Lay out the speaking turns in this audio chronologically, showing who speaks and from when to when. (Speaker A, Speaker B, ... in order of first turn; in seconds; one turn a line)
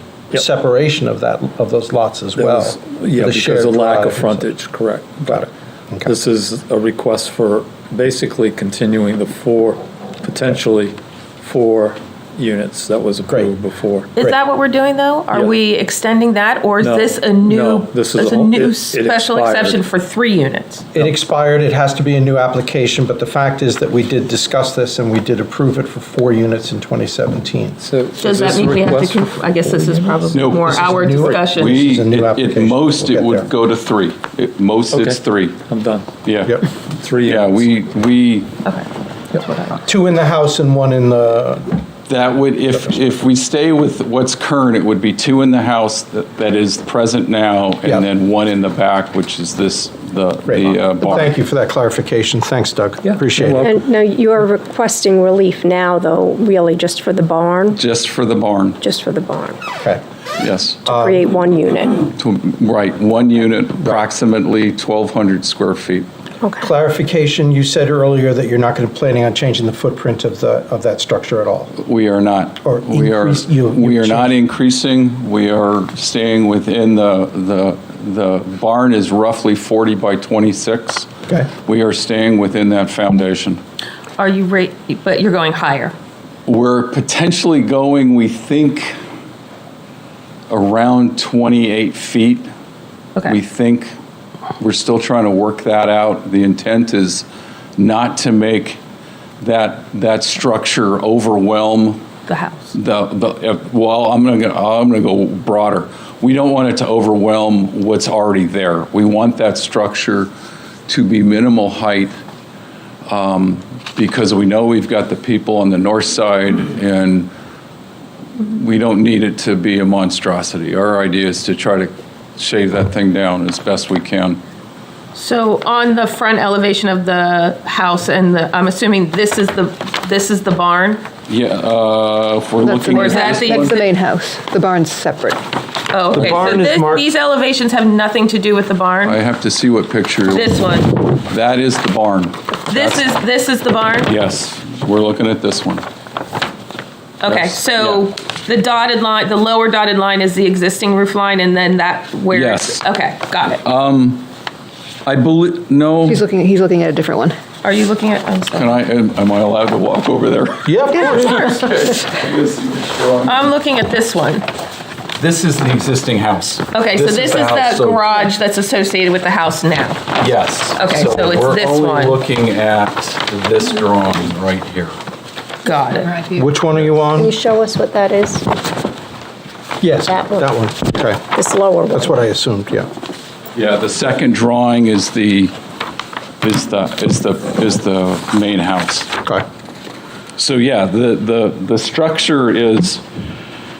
Speaker A: 0.3-4.5
Speaker B: 2.4-5.5
Speaker A: 5.2-6.1
Speaker B: 6.0-14.1
Speaker C: 14.2-20.9
Speaker B: 16.8-19.8
Speaker A: 20.9-27.8
Speaker B: 27.8-30.7
Speaker C: 28.2-31.8
Speaker D: 30.3-30.8
Speaker A: 30.7-33.5
Speaker D: 31.4-35.6
Speaker B: 34.9-36.0
Speaker D: 36.2-36.6
Speaker B: 37.0-37.7
Speaker D: 37.2-38.5
Speaker C: 38.6-39.8
Speaker A: 39.8-41.6
Speaker D: 42.1-51.3
Speaker A: 50.5-53.7
Speaker B: 53.0-53.8
Speaker E: 53.6-57.8
Speaker D: 57.7-58.8
Speaker E: 58.8-59.6
Speaker D: 60.4-60.8
Speaker E: 60.8-62.1
Speaker A: 60.9-61.2
Speaker D: 62.1-66.1
Speaker A: 66.6-71.7
Speaker D: 71.8-81.1
Speaker A: 72.6-74.3
Speaker D: 81.6-83.6
Speaker C: 84.2-85.9
Speaker D: 86.5-89.0
Speaker D: 90.5-92.5
Speaker D: 93.2-93.9
Speaker D: 94.6-97.2
Speaker D: 97.8-98.8
Speaker D: 99.4-102.0
Speaker C: 102.3-102.7
Speaker D: 102.7-110.3
Speaker D: 110.9-112.2
Speaker D: 113.1-117.3
Speaker D: 118.4-124.4
Speaker C: 125.1-131.0
Speaker D: 131.3-133.8
Speaker F: 132.6-135.4
Speaker C: 132.8-133.9
Speaker C: 135.9-139.2
Speaker A: 136.1-137.0
Speaker D: 139.0-140.5
Speaker C: 140.3-141.0
Speaker D: 141.2-143.1
Speaker C: 142.7-144.1
Speaker D: 144.0-145.8
Speaker C: 147.2-153.6
Speaker D: 147.2-148.0
Speaker D: 152.3-152.8
Speaker D: 153.6-154.3
Speaker D: 155.1-156.2
Speaker F: 156.1-157.3
Speaker C: 157.6-158.8
Speaker D: 158.5-163.5
Speaker A: 160.6-161.3
Speaker C: 163.2-164.4
Speaker D: 165.2-168.2
Speaker C: 166.7-170.0
Speaker D: 170.2-175.0
Speaker C: 170.8-172.2
Speaker C: 175.6-176.2
Speaker A: 176.3-177.3
Speaker E: 177.2-178.4
Speaker A: 179.8-181.2
Speaker E: 180.1-180.5
Speaker E: 181.3-182.1
Speaker A: 181.9-182.9
Speaker D: 183.5-185.5
Speaker D: 186.4-189.1
Speaker D: 190.4-193.0